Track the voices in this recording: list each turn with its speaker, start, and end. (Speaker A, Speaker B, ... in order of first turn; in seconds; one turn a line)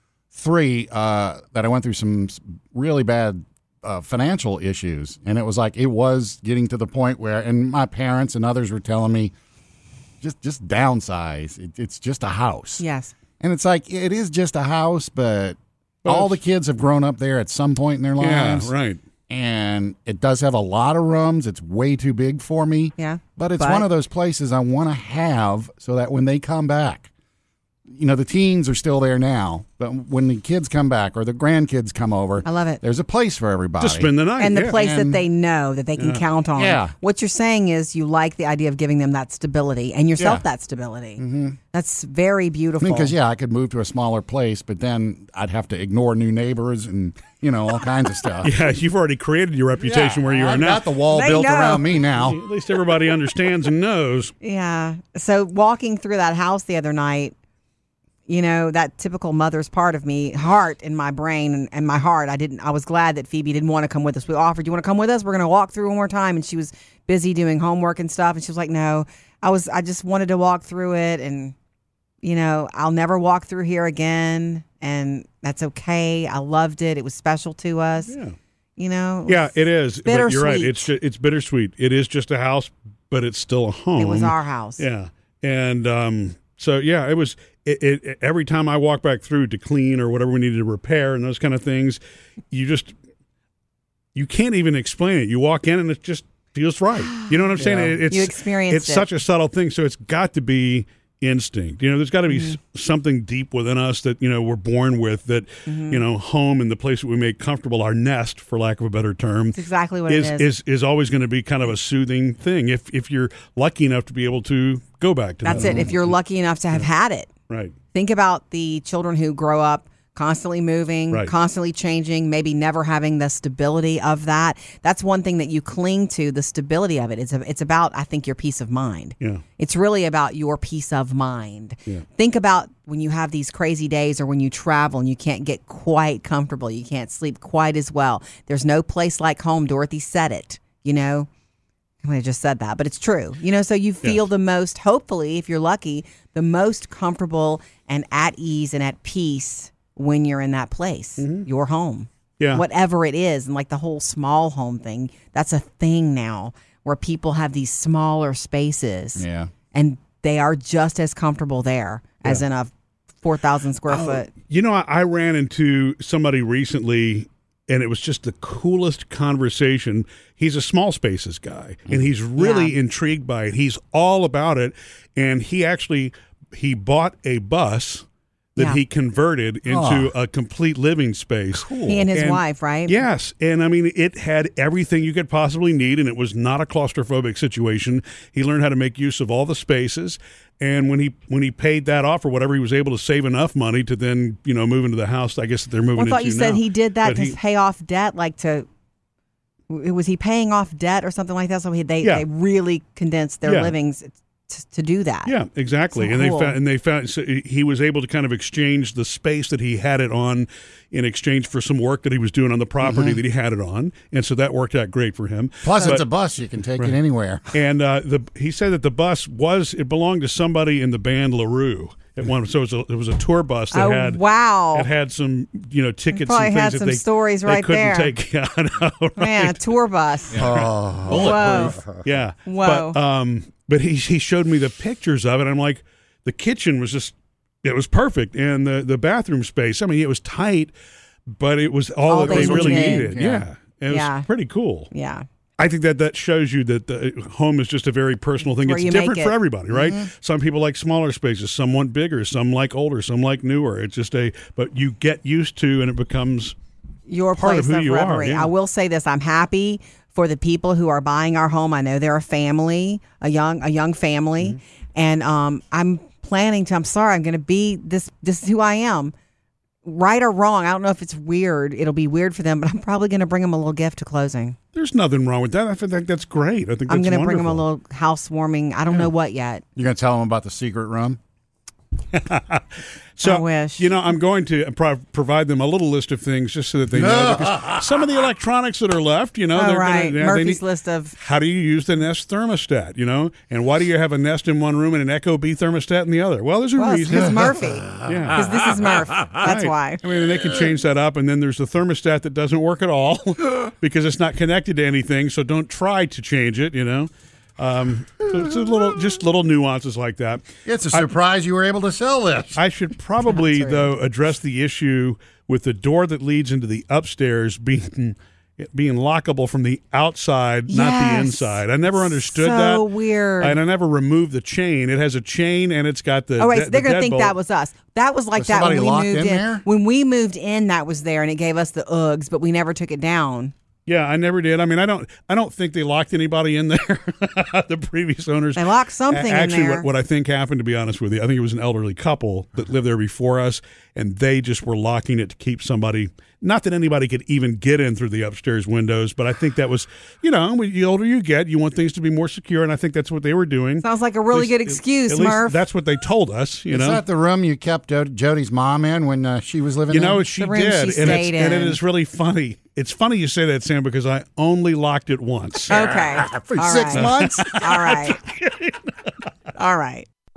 Speaker A: 0.3-9.3
Speaker A: 10.2-12.8
Speaker B: 12.8-13.1
Speaker A: 13.4-18.7
Speaker C: 16.1-16.4
Speaker C: 18.2-19.0
Speaker A: 19.3-27.1
Speaker B: 23.0-23.9
Speaker A: 27.9-35.2
Speaker B: 32.4-32.8
Speaker C: 33.8-34.8
Speaker B: 34.4-41.2
Speaker C: 36.0-36.2
Speaker A: 36.6-36.9
Speaker A: 40.2-40.4
Speaker A: 41.2-41.6
Speaker B: 41.7-43.1
Speaker A: 42.8-48.5
Speaker C: 48.4-50.9
Speaker A: 49.8-52.4
Speaker B: 51.1-52.0
Speaker C: 52.1-54.3
Speaker B: 54.4-57.3
Speaker B: 58.3-71.5
Speaker B: 72.2-78.1
Speaker C: 78.1-78.4
Speaker B: 78.8-80.9
Speaker C: 79.3-92.0
Speaker B: 84.0-84.8
Speaker C: 92.5-93.0
Speaker C: 94.2-116.1
Speaker A: 97.6-98.0
Speaker B: 98.0-99.1
Speaker B: 105.7-106.0
Speaker B: 109.5-110.5
Speaker B: 115.4-117.3
Speaker A: 115.6-115.9
Speaker C: 117.5-117.7
Speaker B: 117.9-141.3
Speaker B: 142.0-162.7
Speaker C: 151.2-151.5
Speaker C: 152.4-152.6
Speaker A: 159.2-159.5
Speaker B: 163.2-164.3
Speaker C: 163.9-197.4
Speaker B: 172.4-172.8
Speaker A: 179.7-180.1
Speaker A: 181.5-182.1
Speaker B: 181.9-183.0
Speaker B: 195.9-198.7
Speaker B: 199.7-205.3
Speaker C: 203.4-203.7
Speaker C: 205.2-216.1
Speaker B: 205.9-206.6
Speaker A: 212.8-213.2
Speaker A: 215.6-217.5
Speaker C: 217.5-229.7
Speaker B: 223.7-224.9
Speaker B: 226.1-228.2
Speaker B: 229.2-230.4
Speaker C: 230.3-240.7
Speaker A: 230.3-232.1
Speaker B: 231.1-231.8
Speaker B: 232.4-233.0
Speaker C: 241.3-244.9
Speaker B: 242.1-243.2
Speaker A: 242.2-243.5
Speaker B: 243.9-244.3
Speaker B: 244.9-245.2
Speaker C: 245.6-256.6
Speaker B: 248.6-249.4
Speaker A: 249.7-250.1
Speaker B: 257.1-269.1
Speaker C: 257.4-258.5
Speaker B: 269.9-274.6
Speaker C: 274.7-277.6
Speaker B: 276.9-279.6
Speaker A: 279.8-281.2
Speaker C: 282.1-282.6
Speaker C: 283.2-290.6
Speaker B: 283.2-283.9
Speaker A: 286.9-287.8
Speaker B: 289.5-291.2
Speaker C: 291.2-298.5
Speaker B: 296.8-300.0
Speaker C: 299.4-311.1
Speaker A: 310.6-312.6
Speaker C: 312.6-322.9
Speaker B: 313.3-313.9
Speaker B: 320.7-323.6
Speaker C: 323.4-327.4
Speaker B: 326.4-333.5
Speaker A: 328.4-329.6
Speaker C: 333.9-357.0
Speaker B: 338.6-339.9
Speaker B: 353.8-355.6
Speaker A: 356.7-360.2
Speaker C: 359.9-365.8
Speaker B: 360.2-361.8
Speaker B: 365.7-368.2
Speaker A: 365.8-367.6
Speaker C: 366.9-369.1
Speaker B: 369.6-370.1